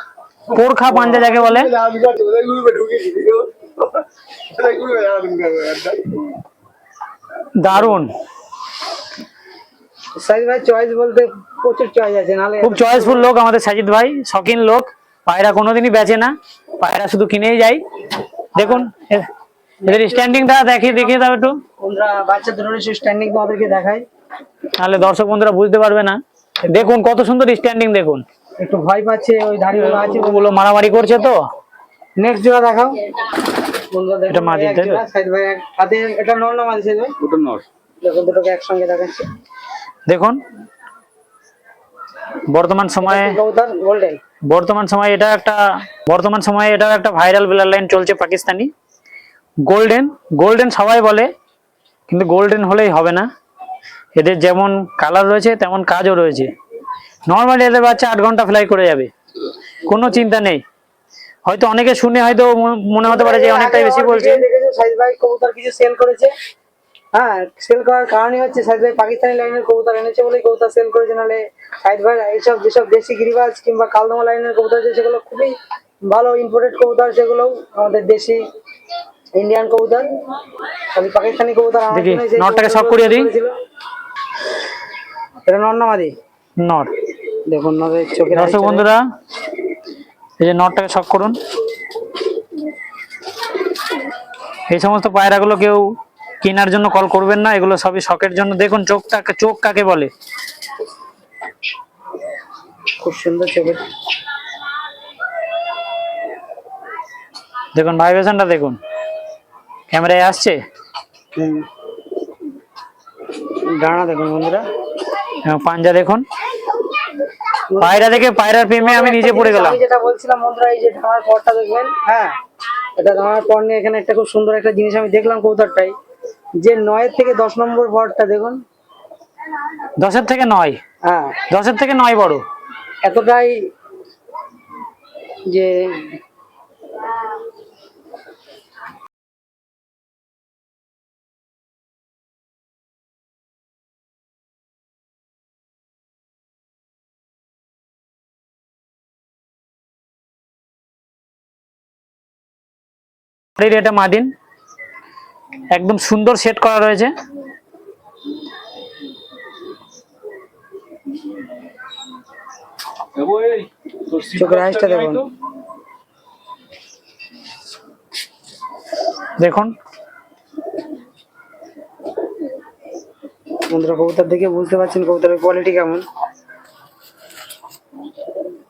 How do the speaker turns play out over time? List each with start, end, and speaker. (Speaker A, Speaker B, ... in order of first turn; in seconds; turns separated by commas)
Speaker A: 0.5-1.7, Speaker B: 1.4-3.5, Speaker B: 4.5-6.1, Speaker A: 7.6-8.1, Speaker C: 10.2-13.3, Speaker A: 12.6-17.8, Speaker A: 18.6-19.3, Speaker C: 18.6-18.9, Speaker C: 19.8-21.2, Speaker A: 19.9-21.6, Speaker C: 21.8-24.1, Speaker A: 24.8-28.2, Speaker C: 26.6-26.9, Speaker C: 28.6-30.6, Speaker A: 29.7-31.4, Speaker C: 32.2-33.0, Speaker C: 33.9-37.1, Speaker A: 34.3-35.0, Speaker B: 37.2-37.7, Speaker C: 38.0-39.3, Speaker A: 40.1-40.4, Speaker A: 42.5-43.3, Speaker C: 43.0-44.2, Speaker A: 44.5-48.7, Speaker A: 49.7-51.3, Speaker A: 52.1-53.3, Speaker A: 54.2-56.5, Speaker A: 57.3-59.1, Speaker A: 59.9-60.6, Speaker A: 61.5-64.4, Speaker C: 63.0-66.3, Speaker C: 67.1-75.5, Speaker C: 76.1-78.4, Speaker C: 79.4-80.1, Speaker C: 80.9-83.5, Speaker A: 81.9-83.3, Speaker C: 85.5-86.1, Speaker A: 86.6-86.9, Speaker C: 87.5-88.9, Speaker A: 88.3-89.0, Speaker A: 90.4-91.4, Speaker A: 94.7-95.9, Speaker A: 96.4-100.1, Speaker C: 103.0-103.8, Speaker A: 107.8-108.8, Speaker A: 109.9-110.6, Speaker C: 111.3-111.7, Speaker C: 113.7-114.6, Speaker A: 115.5-116.2, Speaker C: 117.7-122.4, Speaker A: 117.8-119.8, Speaker C: 123.0-126.0, Speaker C: 126.6-128.6, Speaker A: 130.0-130.8, Speaker C: 131.0-131.4, Speaker A: 131.5-132.4, Speaker C: 133.0-133.7, Speaker C: 135.5-136.2, Speaker A: 153.6-154.3, Speaker A: 155.7-157.1, Speaker B: 163.2-165.3, Speaker C: 164.4-165.3, Speaker A: 169.4-169.8, Speaker C: 173.7-176.0